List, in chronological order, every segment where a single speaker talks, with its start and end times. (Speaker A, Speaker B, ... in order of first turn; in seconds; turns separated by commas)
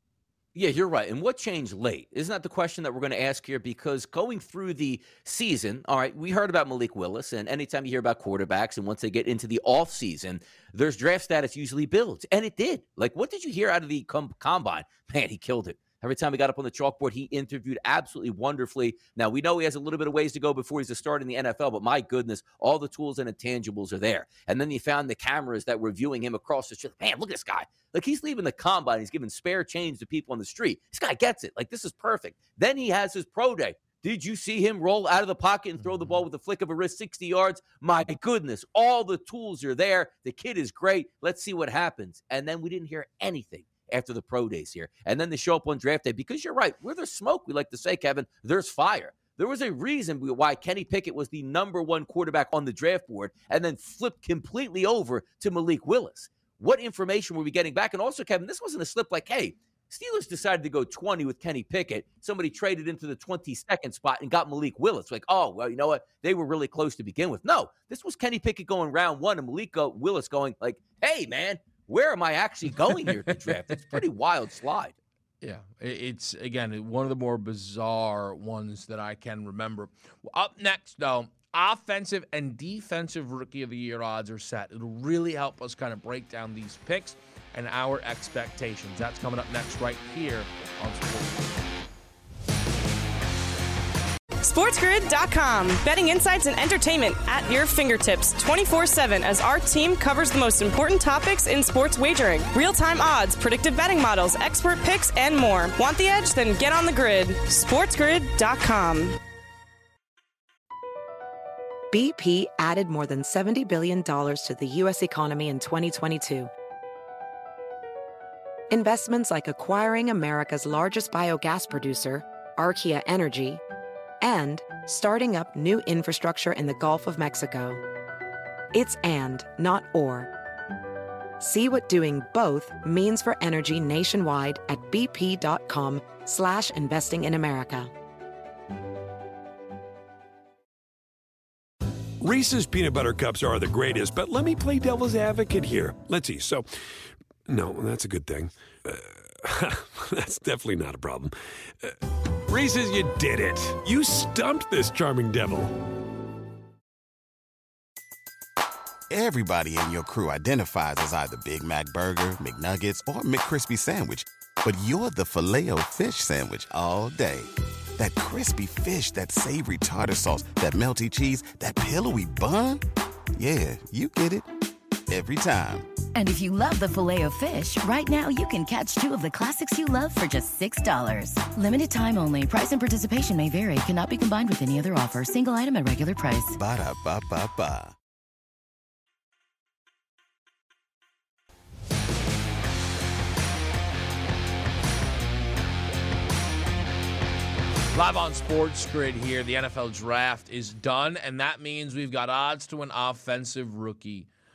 Speaker A: 0.6-75.0, Speaker B: 75.4-91.6, Speaker C: 94.4-109.2, Speaker D: 111.9-116.5, Speaker D: 118.7-123.6, Speaker D: 124.2-127.8, Speaker D: 128.7-130.3, Speaker D: 131.4-137.9, Speaker E: 142.2-146.7, Speaker E: 147.5-152.0, Speaker E: 152.5-155.7, Speaker F: 159.1-172.8, Speaker F: 173.4-174.5, Speaker F: 175.1-175.9, Speaker G: 176.2-186.6, Speaker F: 186.6-187.9, Speaker B: 197.9-204.3